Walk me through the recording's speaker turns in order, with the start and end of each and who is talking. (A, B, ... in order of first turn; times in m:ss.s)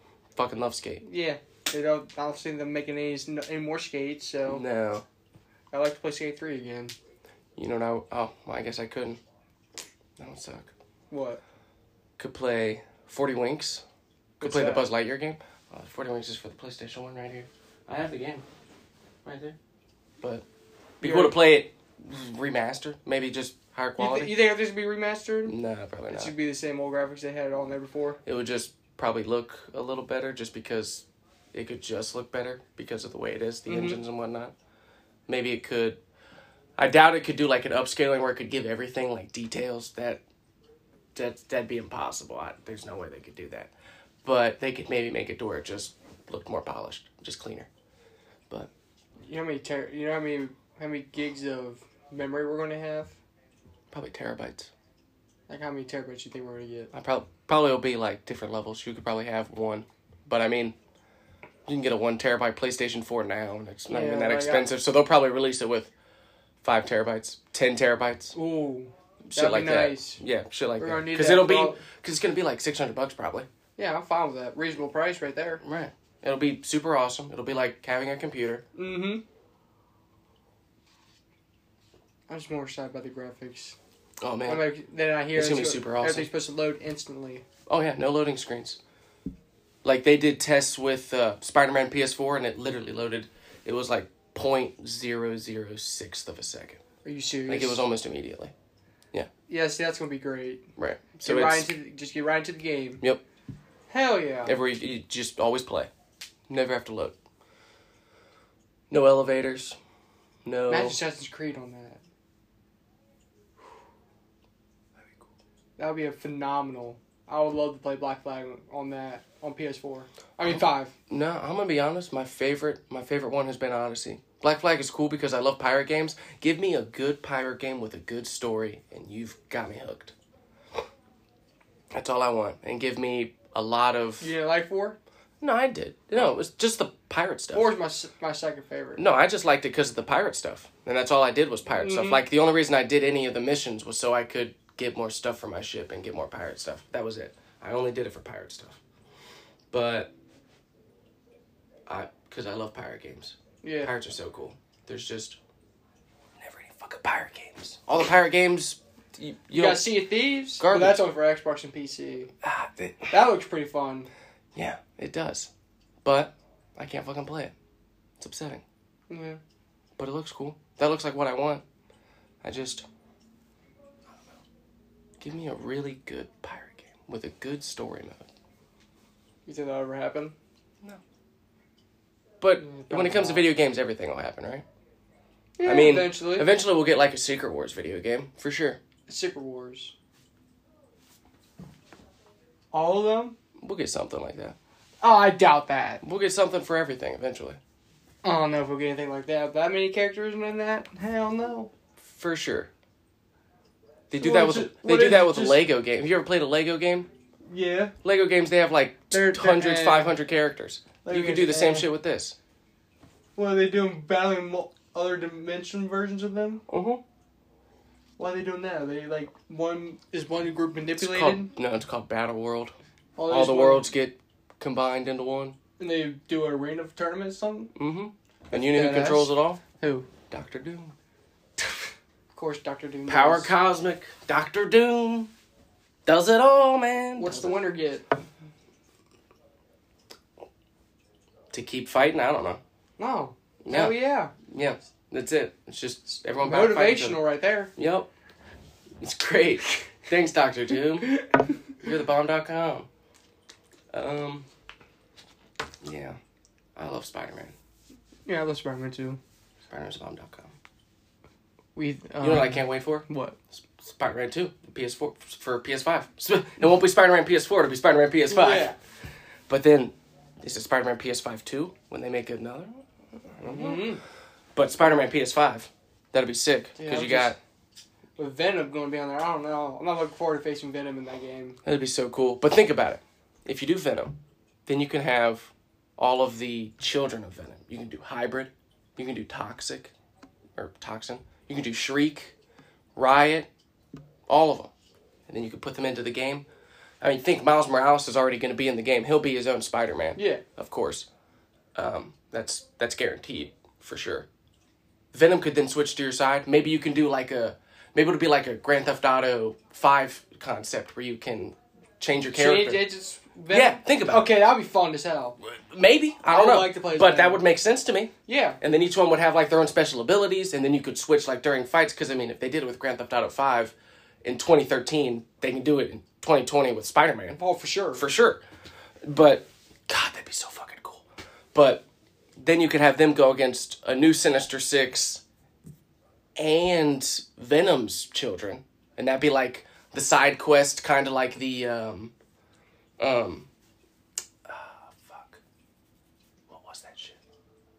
0:00.4-0:01.0 A
0:01.0-0:04.6 B
0:04.5-0:05.0 A
0:05.7-0:07.0 B
0:07.6-0:09.2 A
0:10.2-0:10.7 A
0:11.1-0:11.4 B
0:12.2-0:13.8 A
0:14.4-0:14.9 B
0:14.4-0:18.4 A
0:19.2-0:19.6 A
0:21.0-0:21.4 B
0:21.0-0:24.4 A
0:24.0-0:25.6 B
0:25.5-0:26.3 A
0:26.1-0:28.2 B
0:28.2-0:34.5 A
0:33.7-0:34.0 B
0:35.3-0:36.0 A
0:36.8-0:40.2 A
0:41.2-0:43.7 A
0:44.2-0:47.7 A
0:49.3-0:53.2 B
0:53.9-0:54.7 A
0:55.5-0:56.9 B
0:56.9-1:00.8 A
1:01.7-1:05.9 A
1:03.9-1:04.7 B
1:06.6-1:08.4 A
1:08.4-1:10.2 B
1:09.3-1:13.5 A
1:10.8-1:11.8 B
1:13.8-1:15.6 B
1:15.6-1:18.6 A
1:18.8-1:19.2 B
1:22.3-1:23.8 B
1:24.2-1:24.7 A
1:24.5-1:27.4 B
1:25.3-1:26.3 A
1:27.7-1:28.8 A
1:29.8-1:36.8 A
1:37.0-1:37.8 B
1:37.5-1:38.5 A
1:39.5-1:40.7 B
1:40.8-1:41.7 A
1:41.2-1:43.0 B
1:43.9-1:44.6 B
1:44.4-1:45.9 A
1:46.5-1:47.2 A
1:48.9-1:49.8 A
1:50.4-1:51.0 A
1:50.7-1:52.0 B
1:55.8-2:00.9 B
2:00.5-2:10.1 A
2:11.9-2:14.3 A
2:14.2-2:15.0 B
2:15.4-2:17.7 A
2:17.5-2:19.0 B
2:19.0-2:28.8 A
2:21.7-2:22.2 B
2:29.7-2:30.1 A
2:31.9-2:35.4 A
2:33.6-2:33.9 B
2:36.4-2:40.0 A
2:39.5-2:42.3 B
2:40.6-2:41.0 A
2:42.4-2:43.2 A
2:43.1-2:44.1 B
2:44.6-2:45.5 A
2:46.0-2:47.5 A
2:48.2-2:48.6 A
2:49.1-2:49.4 B
2:50.0-2:51.6 A
2:52.4-2:52.8 A
2:55.2-2:58.3 A
2:59.5-3:00.4 B
3:02.4-3:04.6 A
3:02.6-3:03.5 B
3:05.6-3:06.5 B
3:05.6-3:08.8 A
3:09.1-3:09.9 B
3:12.7-3:13.4 B
3:13.6-3:14.6 A
3:15.0-3:16.0 B
3:16.0-3:17.6 A
3:18.2-3:21.7 B
3:22.0-3:22.7 A
3:24.1-3:27.1 A
3:24.1-3:25.7 B
3:27.5-3:28.0 B
3:28.0-3:32.4 A
3:29.1-3:30.2 B
3:31.0-3:31.9 B
3:33.4-3:36.6 B
3:36.7-3:37.0 A
3:38.2-3:41.5 B
3:41.0-3:42.8 A
3:43.2-3:43.9 B
3:43.3-3:45.6 A
3:45.8-3:47.8 B
3:47.8-3:49.6 A
3:48.5-3:50.1 B
3:50.3-3:50.9 A
3:52.3-3:53.5 B
3:53.1-3:55.3 A
3:56.1-3:57.6 A
3:57.2-3:58.1 B
4:01.5-4:02.6 A
4:03.0-4:04.3 B
4:03.7-4:07.2 A
4:06.4-4:07.7 B
4:07.8-4:08.1 A
4:09.0-4:11.2 A
4:11.8-4:12.9 A
4:13.9-4:14.5 A
4:15.8-4:16.2 A
4:16.8-4:17.6 A
4:18.3-4:19.2 B
4:19.7-4:20.5 A
4:21.8-4:23.4 B
4:22.2-4:23.1 A
4:23.6-4:28.7 A
4:28.3-4:28.8 B
4:29.5-4:34.0 A
4:33.4-4:34.0 B
4:34.6-4:37.4 A
4:36.8-4:37.4 B
4:38.2-4:41.6 B
4:41.6-4:49.9 A
4:50.6-4:52.4 A
4:53.0-4:53.5 A
4:54.3-4:54.7 A
4:55.3-4:56.4 A
4:57.0-5:01.1 A
5:00.2-5:00.4 B
5:01.8-5:04.3 A
5:05.1-5:12.9 A
5:12.3-5:15.4 B
5:13.5-5:14.3 A
5:15.4-5:27.4 A
5:16.3-5:17.4 B
5:18.3-5:18.6 B
5:27.3-5:28.0 B
5:28.0-5:28.4 A
5:29.0-5:31.8 A
5:32.4-5:35.2 A
5:36.4-5:42.1 A
5:43.0-5:43.5 A
5:44.5-5:45.4 A
5:46.5-5:47.2 A